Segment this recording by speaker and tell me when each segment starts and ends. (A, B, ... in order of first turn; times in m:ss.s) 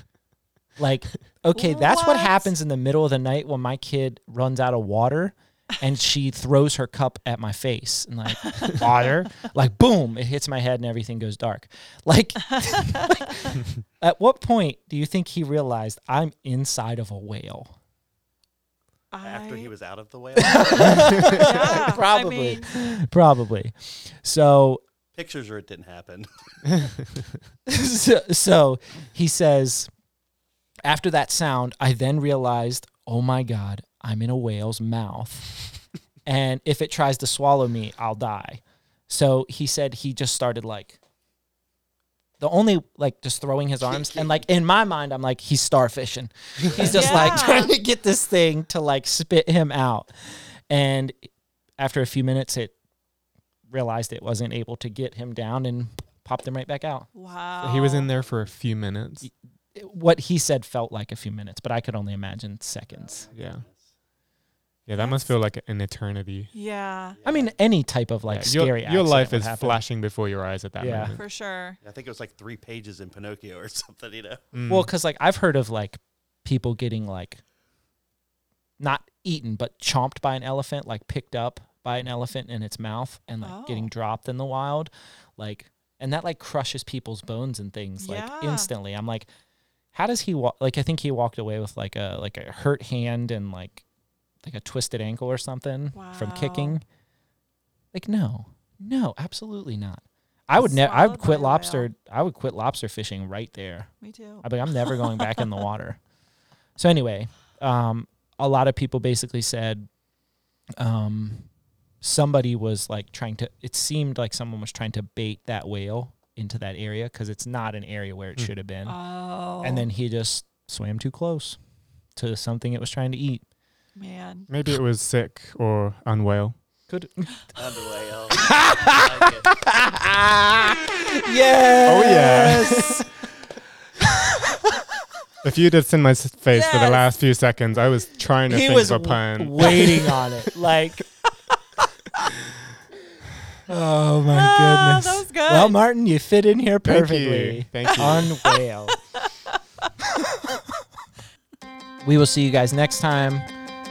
0:00.8-0:17.8 A
0:01.5-0:02.5 B
0:19.1-0:19.7 B
0:19.2-0:21.8 C
0:20.4-0:24.8 A
0:21.2-0:22.8 B
0:25.1-0:26.9 C
0:27.7-0:29.9 A
0:30.8-0:41.0 A
0:42.4-0:52.8 A
0:43.8-0:44.4 C
0:46.6-0:47.4 C
0:46.8-0:47.7 B
0:53.7-0:57.1 A
0:57.1-0:58.1 B
0:57.6-0:59.3 D
0:58.2-0:58.5 C
0:59.2-1:03.3 A
1:02.9-1:03.9 C
1:03.4-1:03.6 D
1:04.9-1:06.5 D
1:05.0-1:05.4 B
1:06.5-1:07.2 B
1:07.2-1:07.5 C
1:07.2-1:09.8 A
1:08.3-1:11.3 D
1:10.8-1:11.2 A
1:11.1-1:11.8 B
1:11.8-1:14.4 C
1:14.5-1:14.9 D
1:14.7-1:17.4 A
1:18.8-1:29.3 A
1:23.4-1:23.9 B
1:28.0-1:28.7 B
1:29.9-1:33.8 A
1:34.4-1:36.8 A
1:35.9-1:36.8 B
1:37.9-1:46.0 A
1:40.6-1:41.9 B
1:44.0-1:45.1 B
1:46.8-1:49.9 A
1:50.8-1:59.0 A
1:58.9-1:59.9 B
1:59.6-2:01.6 A
2:02.1-2:03.5 A
2:04.0-2:04.5 B
2:04.5-2:06.6 D
2:06.9-2:07.5 A
2:07.6-2:09.5 C
2:08.4-2:13.1 A
2:11.8-2:13.0 D
2:14.0-2:14.5 A
2:15.4-2:20.3 D
2:16.5-2:17.1 B
2:18.5-2:21.2 A
2:23.7-2:29.1 A
2:24.3-2:25.8 B
2:26.8-2:28.4 D
2:28.0-2:28.5 B
2:30.3-2:30.8 A
2:32.0-2:33.5 A